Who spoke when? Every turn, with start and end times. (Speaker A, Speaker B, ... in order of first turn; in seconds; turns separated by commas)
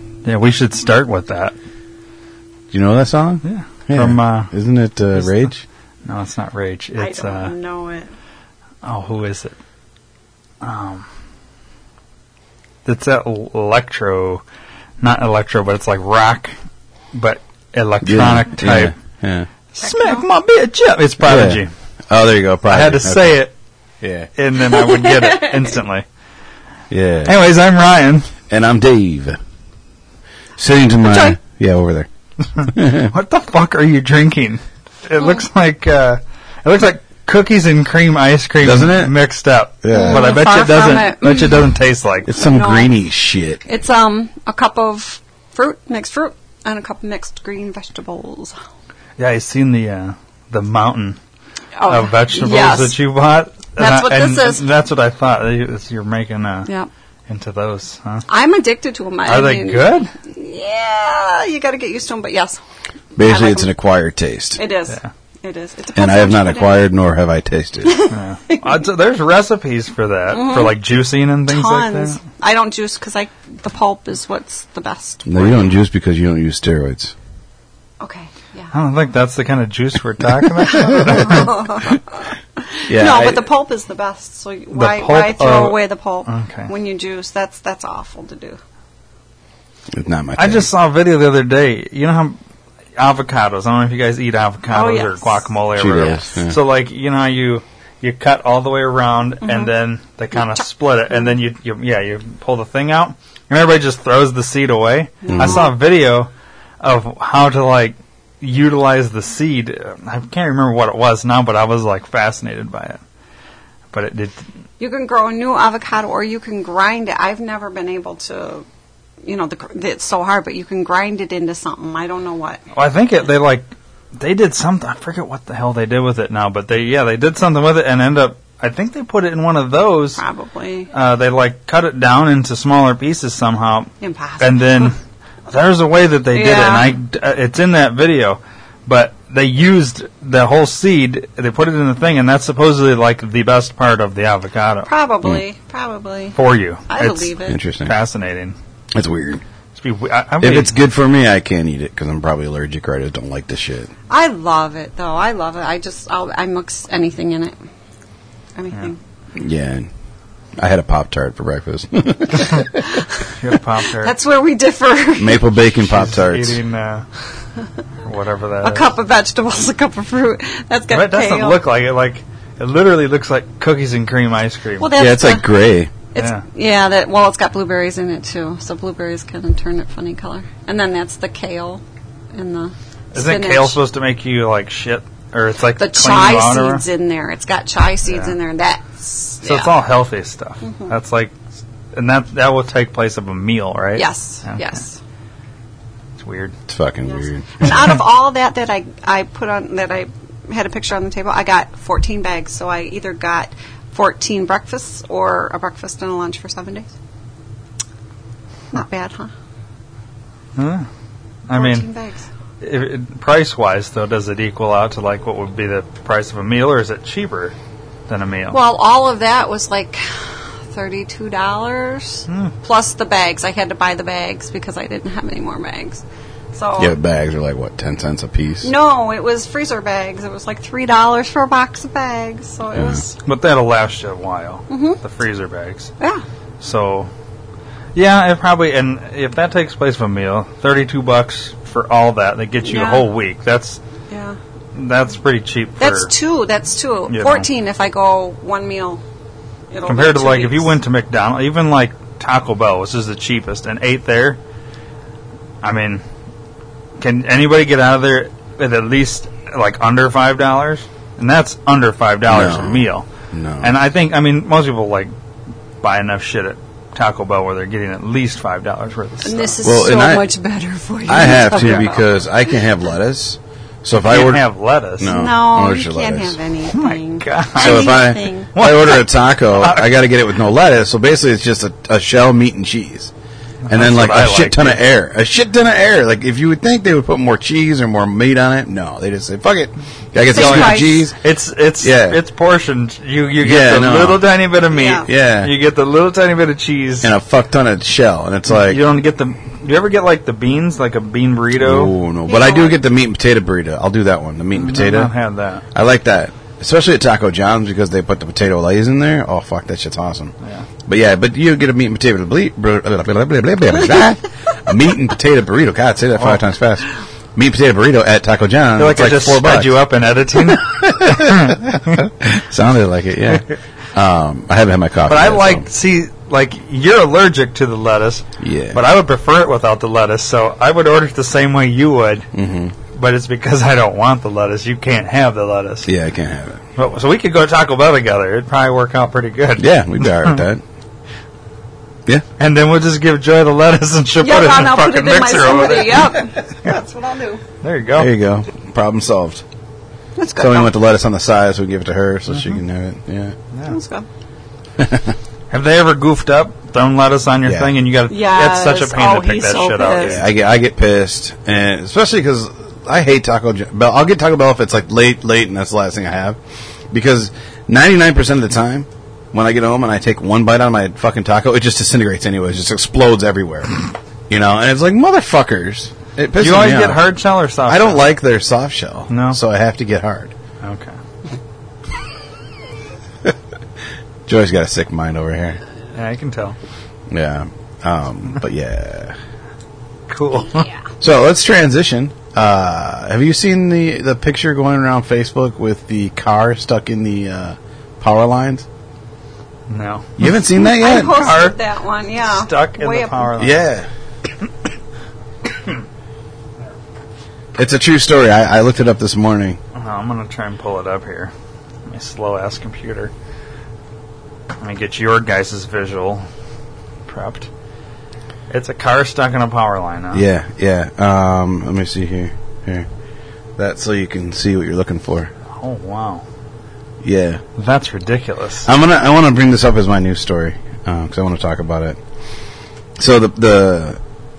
Speaker A: 0.2-1.5, Speaker B: 2.7-5.6, Speaker A: 3.4-4.5, Speaker A: 5.1-5.5, Speaker A: 6.0-7.5, Speaker C: 7.0-8.1, Speaker A: 8.8-9.5, Speaker A: 10.6-11.0, Speaker A: 12.8-14.4, Speaker A: 15.0-16.5, Speaker A: 17.1-18.9, Speaker B: 18.0-19.5, Speaker A: 19.7-21.7, Speaker C: 19.8-20.2, Speaker B: 21.2-23.4, Speaker A: 22.7-23.5, Speaker B: 24.0-24.3, Speaker A: 24.4-26.0, Speaker C: 24.6-25.5, Speaker B: 26.9-27.3, Speaker A: 27.2-28.3, Speaker B: 28.5-29.4, Speaker B: 30.6-32.1, Speaker C: 31.0-31.4, Speaker A: 32.6-42.3, Speaker B: 32.6-33.1, Speaker B: 38.6-39.1, Speaker B: 39.8-40.3, Speaker C: 39.9-41.7, Speaker B: 42.3-43.6, Speaker C: 42.4-42.9, Speaker C: 43.6-48.5, Speaker A: 49.2-51.2, Speaker C: 51.8-53.0, Speaker A: 51.9-56.7, Speaker C: 53.8-54.6, Speaker A: 57.3-58.2, Speaker C: 58.3-62.6, Speaker A: 59.2-60.1, Speaker B: 63.1-64.6, Speaker C: 63.2-63.7, Speaker C: 64.6-66.9, Speaker B: 65.9-68.0, Speaker C: 67.9-68.6, Speaker A: 68.1-72.2, Speaker C: 70.3-70.7, Speaker C: 71.5-75.7, Speaker B: 75.2-77.1, Speaker C: 78.0-78.7, Speaker A: 78.7-81.5, Speaker C: 80.7-88.6, Speaker B: 82.9-83.5, Speaker A: 84.7-86.7, Speaker B: 89.9-90.7, Speaker A: 90.4-92.4, Speaker A: 93.0-106.3, Speaker C: 94.7-96.3, Speaker B: 95.8-96.6, Speaker C: 99.4-99.7, Speaker C: 100.3-100.6, Speaker C: 105.2-105.7, Speaker B: 105.3-105.6, Speaker A: 106.8-113.0, Speaker A: 113.9-114.4, Speaker C: 114.8-118.7, Speaker C: 119.2-122.6, Speaker A: 122.7-130.2, Speaker C: 130.2-130.9, Speaker A: 130.9-135.0, Speaker C: 134.0-134.9, Speaker A: 135.5-144.9, Speaker C: 136.3-136.9, Speaker C: 144.8-146.4, Speaker A: 146.3-147.3, Speaker C: 146.9-147.6, Speaker B: 147.5-147.9, Speaker A: 147.8-148.6, Speaker B: 148.9-149.4, Speaker A: 149.8-150.7, Speaker B: 150.4-153.9, Speaker C: 154.1-157.5, Speaker C: 158.6-159.0, Speaker B: 159.3-159.9, Speaker B: 160.6-162.9, Speaker A: 163.4-164.1, Speaker C: 164.0-165.4, Speaker B: 165.2-166.6, Speaker A: 165.8-167.1, Speaker A: 168.0-168.9, Speaker C: 168.6-171.6, Speaker A: 170.9-174.9, Speaker C: 174.8-175.5, Speaker B: 174.9-175.9, Speaker C: 176.1-181.8, Speaker A: 176.2-176.4, Speaker C: 182.3-183.8, Speaker A: 183.1-186.8, Speaker C: 185.8-189.7, Speaker A: 188.1-188.3, Speaker A: 189.4-191.3, Speaker C: 190.6-190.9, Speaker A: 191.9-194.8, Speaker C: 193.9-195.0, Speaker A: 196.2-196.5, Speaker B: 196.7-197.9, Speaker C: 197.1-206.9, Speaker C: 208.7-209.3, Speaker A: 210.6-210.9, Speaker A: 211.5-211.8, Speaker C: 211.5-212.2, Speaker A: 212.6-217.6, Speaker A: 218.1-218.6, Speaker C: 218.5-220.0, Speaker C: 220.7-227.0, Speaker B: 226.8-228.7, Speaker C: 228.6-233.2, Speaker B: 232.7-233.0, Speaker A: 233.2-235.9, Speaker C: 234.7-235.0, Speaker A: 236.6-237.1, Speaker A: 237.9-243.8, Speaker C: 242.6-243.1, Speaker C: 244.1-244.4, Speaker A: 244.7-246.1, Speaker C: 245.8-249.0, Speaker A: 247.1-247.5, Speaker C: 249.7-250.7, Speaker A: 249.9-254.4, Speaker A: 255.6-256.0, Speaker A: 257.0-263.1, Speaker B: 262.3-263.7, Speaker A: 263.6-265.1, Speaker A: 265.8-269.6, Speaker C: 269.2-272.0, Speaker B: 269.6-270.2, Speaker B: 271.1-274.4, Speaker A: 271.5-271.9, Speaker A: 274.0-275.1, Speaker B: 275.0-276.4, Speaker C: 275.1-278.5, Speaker A: 276.7-280.0, Speaker B: 277.6-283.1, Speaker A: 283.6-284.8, Speaker B: 283.7-291.1, Speaker C: 290.3-291.1, Speaker A: 290.4-297.1, Speaker B: 291.8-292.2, Speaker B: 293.4-294.2, Speaker C: 294.7-295.1, Speaker B: 295.0-295.5, Speaker B: 297.0-298.8, Speaker A: 298.5-301.9, Speaker B: 301.6-305.1, Speaker C: 302.3-302.8, Speaker A: 304.5-305.6, Speaker B: 305.7-310.3, Speaker B: 310.9-319.8, Speaker A: 318.8-322.0, Speaker B: 320.5-325.7, Speaker A: 323.3-323.6, Speaker A: 325.1-332.3, Speaker B: 328.4-328.8, Speaker B: 332.3-332.7, Speaker A: 332.9-335.9, Speaker B: 335.9-336.6, Speaker A: 336.8-340.4, Speaker B: 339.6-340.6, Speaker A: 342.4-346.2, Speaker C: 344.2-347.4, Speaker A: 347.6-348.1, Speaker B: 347.9-349.4, Speaker C: 350.1-350.7, Speaker B: 350.4-353.4, Speaker A: 352.3-352.6, Speaker C: 353.6-354.1, Speaker B: 354.8-355.1, Speaker A: 355.5-360.3, Speaker B: 357.4-357.8, Speaker C: 358.1-360.2, Speaker B: 360.0-366.4, Speaker B: 366.9-377.0, Speaker A: 376.4-378.1, Speaker B: 377.6-380.3, Speaker A: 379.1-379.4, Speaker A: 380.6-381.0, Speaker B: 384.3-385.6, Speaker A: 385.9-386.6, Speaker B: 387.1-389.2, Speaker A: 390.1-390.6, Speaker B: 391.0-398.6, Speaker A: 399.7-400.4, Speaker B: 400.2-401.3, Speaker C: 400.6-403.3, Speaker A: 400.9-401.6, Speaker A: 402.2-403.6, Speaker B: 403.4-403.9, Speaker B: 407.5-409.6, Speaker A: 409.7-411.3, Speaker A: 411.9-413.1, Speaker A: 414.6-416.2, Speaker A: 417.1-417.5, Speaker A: 418.5-420.2, Speaker B: 420.1-422.9, Speaker B: 423.6-425.3, Speaker A: 425.5-426.2, Speaker B: 427.0-427.4, Speaker A: 427.6-428.7, Speaker B: 428.6-432.0, Speaker B: 433.0-434.0